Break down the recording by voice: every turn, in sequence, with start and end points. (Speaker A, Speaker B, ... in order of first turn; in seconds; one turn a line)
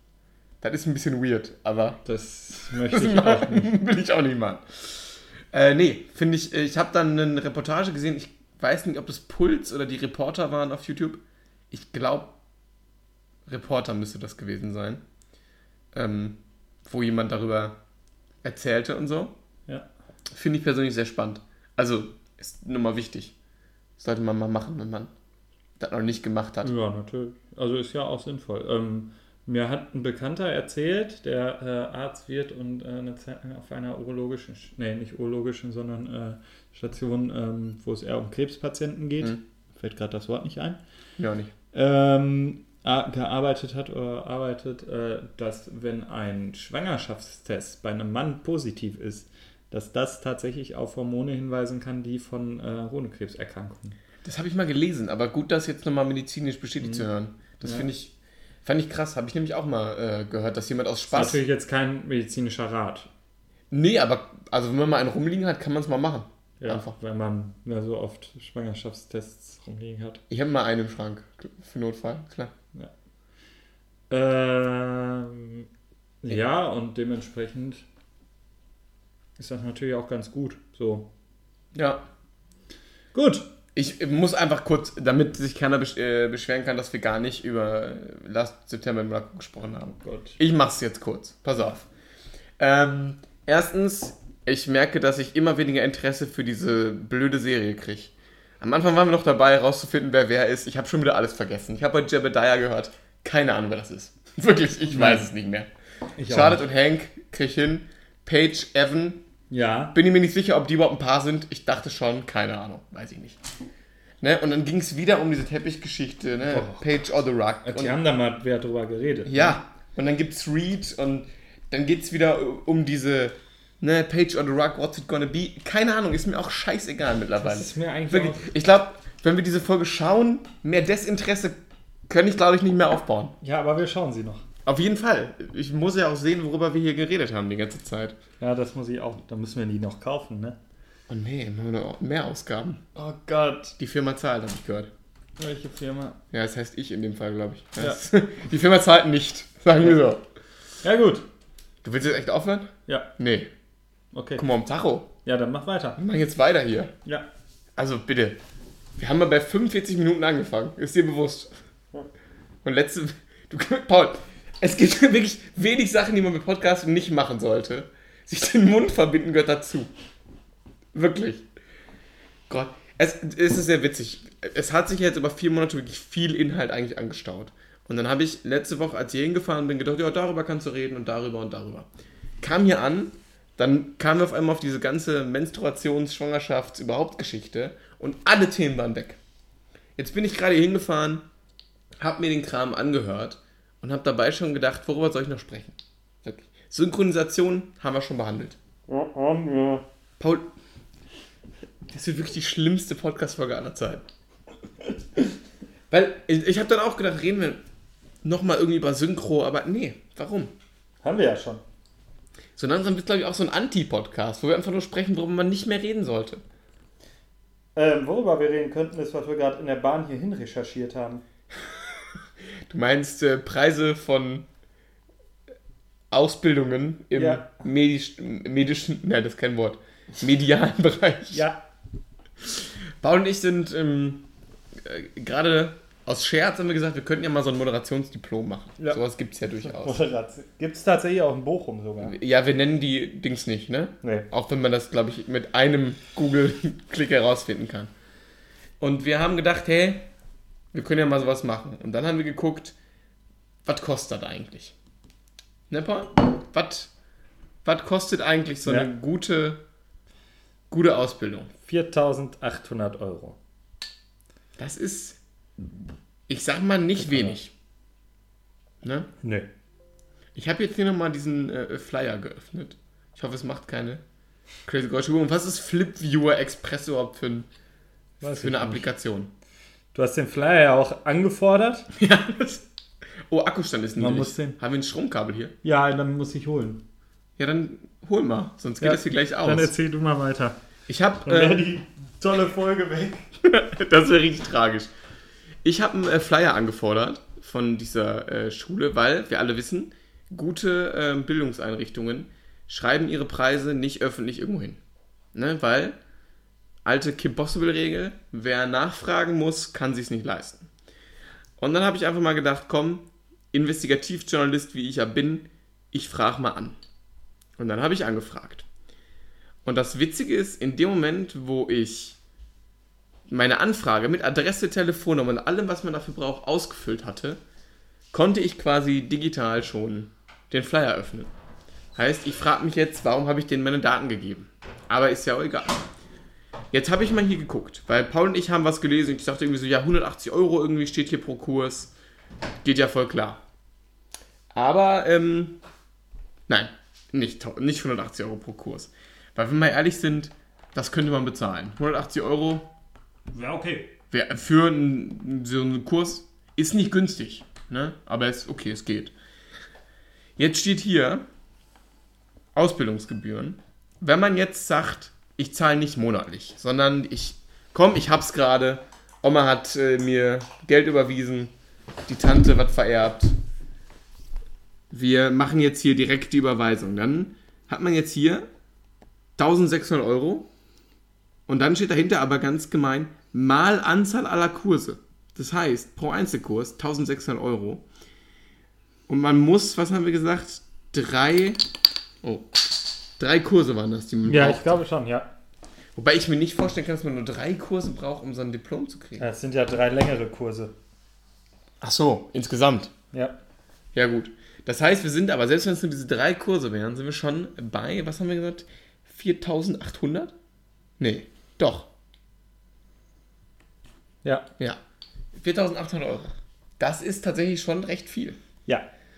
Speaker A: 0.6-2.0
Speaker B: 2.0-3.7
Speaker A: 2.8-12.3
Speaker A: 13.5-15.0
Speaker A: 15.9-17.8
Speaker A: 18.4-19.3
Speaker A: 20.3-23.3
Speaker A: 24.0-25.1
Speaker A: 25.8-26.7
Speaker B: 26.6-40.8
Speaker A: 41.2-41.5
Speaker B: 41.7-54.0
Speaker A: 54.2-61.4
Speaker B: 56.8-57.1
Speaker B: 61.1-63.1
Speaker A: 63.7-67.0
Speaker B: 66.6-70.2
Speaker A: 70.3-72.5
Speaker B: 74.1-75.7
Speaker B: 76.2-77.8
Speaker B: 79.4-81.1
Speaker A: 81.7-82.0
Speaker B: 83.1-83.5
Speaker A: 83.7-91.9
Speaker B: 90.0-90.4
Speaker A: 92.6-105.7
Speaker B: 104.9-105.3
Speaker B: 106.2-106.6
Speaker A: 106.2-109.2
Speaker B: 109.5-110.0
Speaker A: 109.9-113.4
Speaker A: 114.2-118.0
Speaker B: 116.4-116.8
Speaker B: 117.6-119.6
Speaker A: 119.2-131.6
Speaker B: 127.4-128.5
Speaker A: 132.1-133.3
Speaker B: 133.4-134.4
Speaker A: 134.6-138.2
Speaker B: 138.4-140.6
Speaker A: 141.1-142.8
Speaker B: 142.9-143.8
Speaker A: 143.8-144.9
Speaker B: 145.4-146.2
Speaker A: 146.3-150.2
Speaker B: 150.8-151.2
Speaker A: 151.8-153.5
Speaker B: 154.1-154.4
Speaker A: 154.4-155.1
Speaker B: 155.2-156.0
Speaker A: 156.0-156.9
Speaker A: 157.8-158.4
Speaker A: 159.0-161.5
Speaker A: 162.6-169.9
Speaker A: 170.9-171.4
Speaker A: 172.5-181.9
Speaker A: 182.4-189.2
Speaker A: 189.9-191.2
Speaker A: 192.0-198.6
Speaker B: 198.9-199.8
Speaker A: 200.2-200.5
Speaker A: 201.9-204.1
Speaker A: 205.9-207.6
Speaker A: 208.2-210.5
Speaker B: 211.0-211.6
Speaker A: 212.6-216.4
Speaker B: 217.7-221.2
Speaker A: 222.7-224.5
Speaker A: 226.1-231.4
Speaker B: 227.1-227.6
Speaker B: 231.3-231.6
Speaker A: 232.4-234.2
Speaker A: 234.8-240.0
Speaker B: 239.6-242.2
Speaker A: 242.0-247.9
Speaker B: 244.0-244.3
Speaker A: 248.8-250.1
Speaker A: 250.7-252.8
Speaker A: 253.6-254.7
Speaker A: 255.7-256.9
Speaker A: 257.6-259.6
Speaker B: 258.6-258.9
Speaker A: 260.7-261.5
Speaker B: 261.6-263.4
Speaker A: 264.6-265.2
Speaker A: 266.3-267.5
Speaker A: 268.8-269.1
Speaker B: 269.2-269.5
Speaker A: 270.3-274.0
Speaker A: 274.6-277.5
Speaker B: 278.2-278.8
Speaker A: 278.2-279.3
Speaker B: 279.9-281.9
Speaker A: 281.9-282.6
Speaker A: 283.3-285.5
Speaker B: 284.0-284.6
Speaker B: 285.6-286.8
Speaker A: 287.4-289.7
Speaker B: 288.8-290.6
Speaker A: 290.9-291.6
Speaker B: 291.2-293.3
Speaker A: 293.4-294.9
Speaker A: 295.6-304.8
Speaker A: 305.3-305.9
Speaker A: 306.8-310.7
Speaker A: 311.6-316.8
Speaker A: 317.6-318.7
Speaker A: 319.6-322.2
Speaker A: 323.3-327.4
Speaker A: 328.1-331.3
Speaker A: 331.9-335.9
Speaker A: 336.7-341.9
Speaker A: 342.6-343.4
Speaker A: 344.5-345.6
Speaker A: 346.5-352.7
Speaker B: 353.3-353.9
Speaker A: 354.1-359.1
Speaker A: 360.4-361.2
Speaker A: 362.5-371.5
Speaker A: 372.1-373.4
Speaker A: 374.9-378.5
Speaker A: 379.4-380.5
Speaker A: 381.5-387.8
Speaker A: 389.1-391.6
Speaker A: 392.2-394.8
Speaker B: 394.2-395.3
Speaker A: 395.9-399.3
Speaker B: 399.2-400.7
Speaker A: 401.8-402.9
Speaker A: 403.9-410.3
Speaker A: 411.0-411.9
Speaker A: 415.3-418.4